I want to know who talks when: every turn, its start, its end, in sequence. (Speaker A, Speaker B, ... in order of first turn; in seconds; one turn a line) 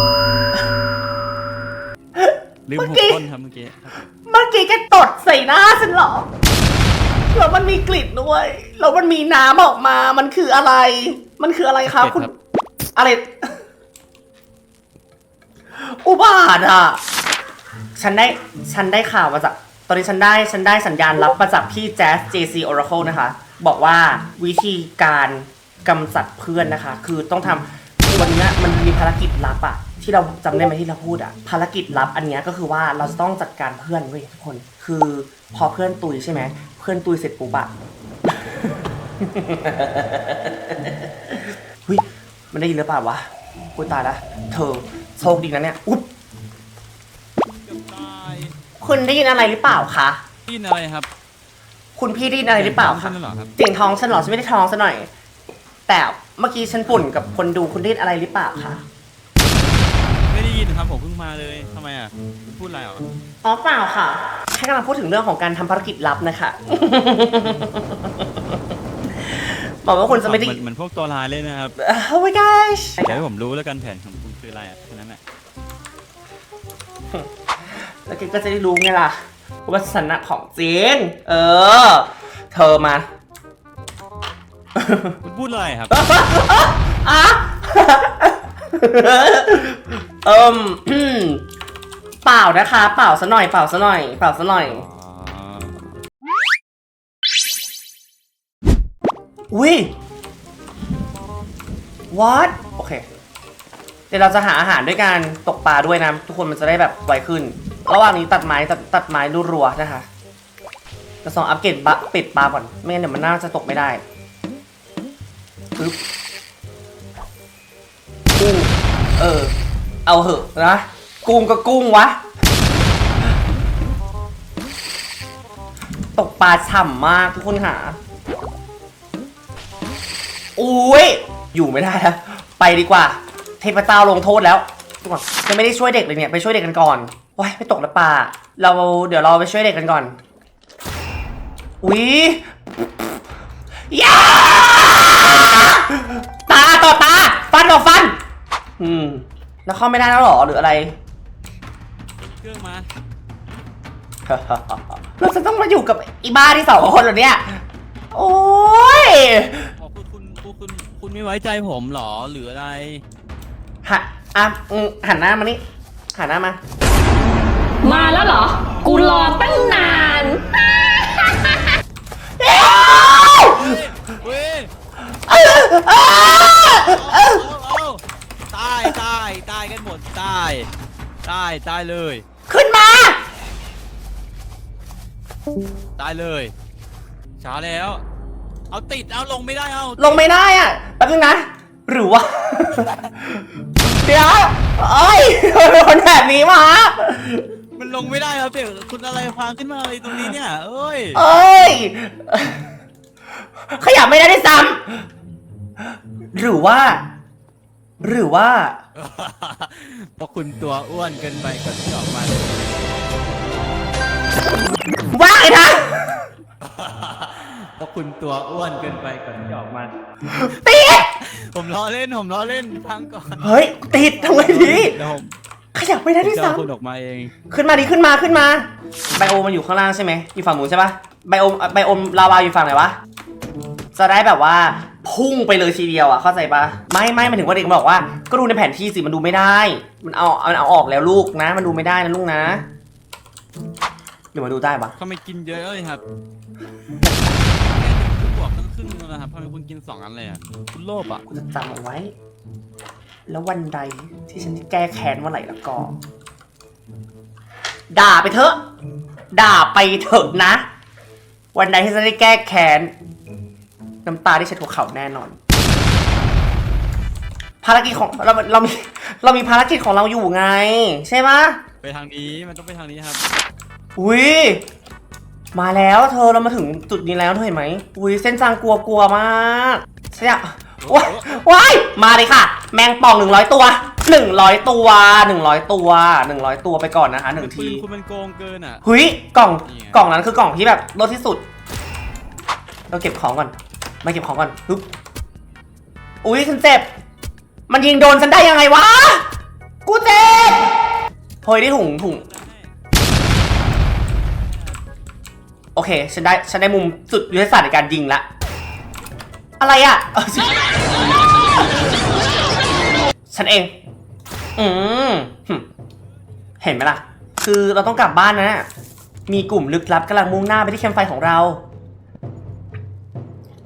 Speaker A: 2.1-3.2
Speaker B: 2.7-4.0
Speaker A: 4.2-6.3
Speaker A: 7.2-12.3
Speaker B: 11.8-12.3
Speaker A: 12.9-13.5
Speaker A: 15.8-17.0
Speaker A: 18.0-37.7
Speaker A: 39.2-46.1
Speaker B: 47.6-48.5
Speaker A: 48.8-50.2
Speaker B: 50.5-51.1
Speaker A: 52.0-55.1
Speaker B: 52.5-53.5
Speaker A: 55.9-58.8
Speaker B: 60.3-63.0
Speaker A: 63.4-68.4
Speaker A: 69.2-70.6
Speaker B: 70.1-71.8
Speaker A: 71.8-73.2
Speaker B: 73.0-75.2
Speaker A: 78.0-83.0
Speaker A: 84.7-85.2
Speaker B: 85.2-85.9
Speaker A: 85.9-91.4
Speaker A: 92.2-94.8
Speaker B: 94.8-95.8
Speaker A: 99.5-99.9
Speaker A: 102.1-103.0
Speaker A: 104.1-110.0
Speaker A: 111.2-114.0
Speaker A: 118.4-119.5
Speaker A: 120.0-122.2
Speaker A: 126.2-128.0
Speaker A: 130.6-140.2
Speaker A: 141.8-143.2
Speaker A: 143.9-148.2
Speaker A: 148.8-150.9
Speaker B: 152.2-152.9
Speaker A: 154.3-157.6
Speaker A: 158.1-159.7
Speaker B: 159.8-163.0
Speaker A: 163.8-165.6
Speaker A: 166.1-166.6
Speaker C: 167.8-170.4
Speaker A: 172.4-173.8
Speaker B: 173.4-174.7
Speaker A: 175.3-177.4
Speaker B: 176.3-180.7
Speaker B: 181.2-182.2
Speaker A: 182.5-183.2
Speaker B: 186.0-186.5
Speaker B: 187.4-188.0
Speaker B: 188.7-190.2
Speaker A: 190.0-197.4
Speaker B: 197.8-201.2
Speaker A: 201.1-202.6
Speaker A: 203.7-205.0
Speaker A: 206.3-207.0
Speaker A: 208.0-208.8
Speaker B: 208.9-213.0
Speaker A: 215.1-216.2
Speaker B: 216.6-219.9
Speaker A: 220.3-221.1
Speaker B: 221.2-223.5
Speaker A: 223.4-225.0
Speaker B: 224.2-225.3
Speaker A: 225.7-226.6
Speaker B: 226.2-227.3
Speaker A: 227.5-233.0
Speaker A: 233.9-242.6
Speaker A: 244.3-244.9
Speaker B: 245.0-246.0
Speaker B: 247.6-251.2
Speaker A: 251.3-252.1
Speaker A: 253.3-255.9
Speaker A: 257.9-258.6
Speaker A: 259.3-260.6
Speaker A: 261.5-262.9
Speaker A: 264.0-265.4
Speaker A: 267.6-271.6
Speaker B: 271.8-273.2
Speaker A: 274.0-274.6
Speaker A: 275.5-287.8
Speaker B: 280.8-281.4
Speaker B: 287.4-288.8
Speaker A: 288.8-291.4
Speaker B: 289.6-290.0
Speaker A: 292.9-294.9
Speaker A: 296.2-296.9
Speaker A: 297.7-299.3
Speaker A: 299.9-300.7
Speaker A: 301.4-302.2
Speaker B: 302.0-302.7
Speaker B: 304.1-304.8
Speaker A: 305.8-308.2
Speaker A: 309.6-311.4
Speaker A: 313.3-313.7
Speaker A: 314.6-315.6
Speaker A: 316.6-318.7
Speaker A: 319.3-321.6